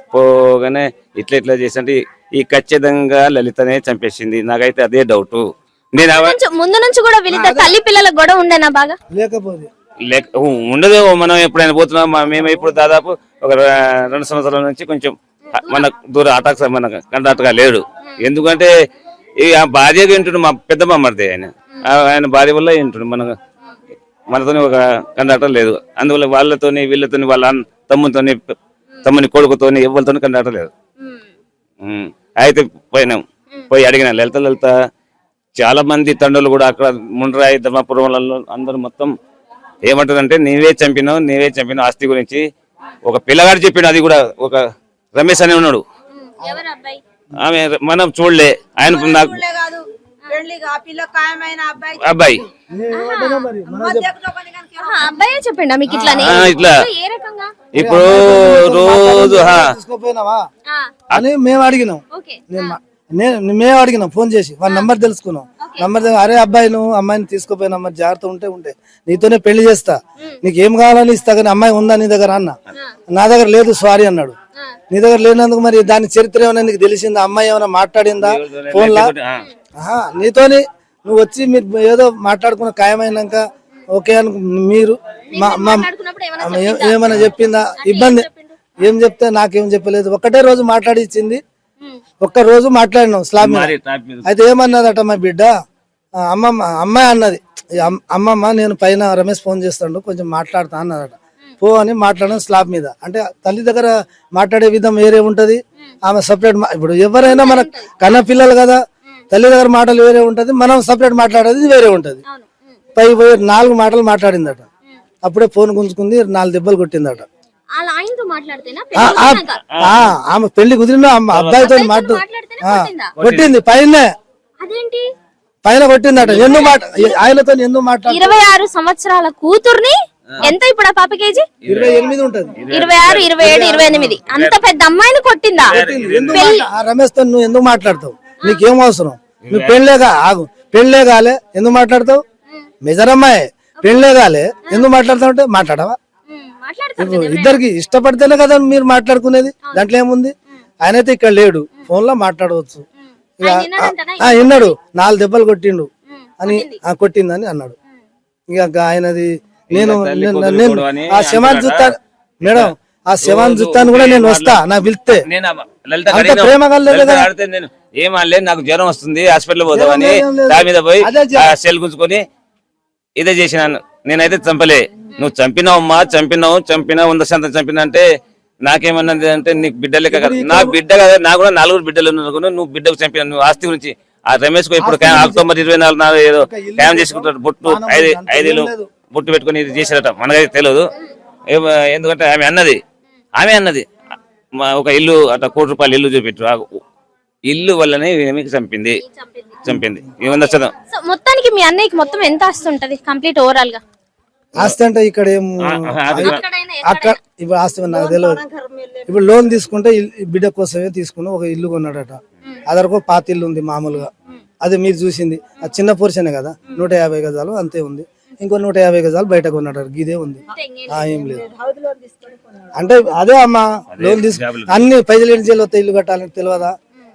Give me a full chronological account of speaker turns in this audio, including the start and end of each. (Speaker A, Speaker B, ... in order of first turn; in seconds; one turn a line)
Speaker A: 0.1-6.4
Speaker B: 6.1-8.9
Speaker C: 7.3-7.7
Speaker C: 9.1-9.7
Speaker A: 10.1-18.7
Speaker B: 15.5-15.9
Speaker A: 19.4-23.3
Speaker A: 24.3-30.7
Speaker B: 31.0-31.3
Speaker A: 31.8-34.7
Speaker A: 35.6-39.1
Speaker A: 39.8-42.5
Speaker A: 43.0-44.6
Speaker A: 45.1-45.8
Speaker B: 46.2-47.0
Speaker A: 47.4-49.5
Speaker D: 49.0-52.0
Speaker A: 52.0-52.5
Speaker C: 52.7-54.1
Speaker B: 52.9-53.5
Speaker D: 53.6-55.0
Speaker B: 54.8-57.6
Speaker C: 55.9-56.5
Speaker A: 56.2-56.8
Speaker A: 57.7-59.7
Speaker C: 57.8-60.4
Speaker C: 61.1-72.5
Speaker B: 62.1-62.8
Speaker B: 65.6-65.9
Speaker C: 73.1-74.3
Speaker C: 74.9-79.1
Speaker A: 78.2-79.4
Speaker C: 79.8-85.9
Speaker B: 85.3-88.5
Speaker C: 86.4-88.2
Speaker C: 88.8-91.4
Speaker C: 92.2-93.7
Speaker A: 93.4-94.2
Speaker C: 94.2-95.5
Speaker C: 96.2-108.8
Speaker B: 107.2-108.2
Speaker C: 109.3-112.2
Speaker C: 113.0-114.6
Speaker C: 115.2-117.2
Speaker B: 117.8-119.6
Speaker C: 118.9-124.1
Speaker A: 119.7-120.1
Speaker A: 121.3-121.8
Speaker B: 121.6-123.1
Speaker A: 123.2-123.5
Speaker B: 124.6-125.0
Speaker C: 125.6-128.5
Speaker A: 126.2-126.8
Speaker B: 126.7-127.2
Speaker B: 128.1-131.4
Speaker A: 131.6-133.7
Speaker C: 131.7-132.6
Speaker B: 132.7-135.8
Speaker C: 133.4-134.2
Speaker A: 134.2-134.6
Speaker A: 135.6-136.6
Speaker C: 135.7-142.2
Speaker B: 136.3-136.7
Speaker A: 139.4-139.8
Speaker C: 142.8-145.9
Speaker B: 146.3-147.6
Speaker C: 147.0-152.8
Speaker B: 153.4-154.7
Speaker C: 153.4-155.9
Speaker B: 156.1-156.8
Speaker C: 156.4-157.7
Speaker C: 158.5-165.2
Speaker A: 159.7-164.6
Speaker A: 165.2-172.2
Speaker C: 166.1-167.3
Speaker C: 169.7-171.5
Speaker A: 173.2-178.0
Speaker A: 178.6-190.9
Speaker C: 180.1-180.8
Speaker C: 184.8-185.5
Speaker C: 186.4-188.9
Speaker A: 191.5-192.8
Speaker A: 193.4-193.9
Speaker A: 194.6-196.7
Speaker A: 197.5-199.0
Speaker B: 199.0-199.6
Speaker A: 199.6-200.7
Speaker B: 200.2-203.8
Speaker C: 204.6-208.4
Speaker A: 205.6-206.4
Speaker B: 206.2-207.2
Speaker D: 207.9-209.1
Speaker C: 209.1-214.1
Speaker C: 214.6-221.5
Speaker B: 220.5-221.2
Speaker D: 221.2-222.7
Speaker C: 222.8-226.8
Speaker A: 223.9-224.9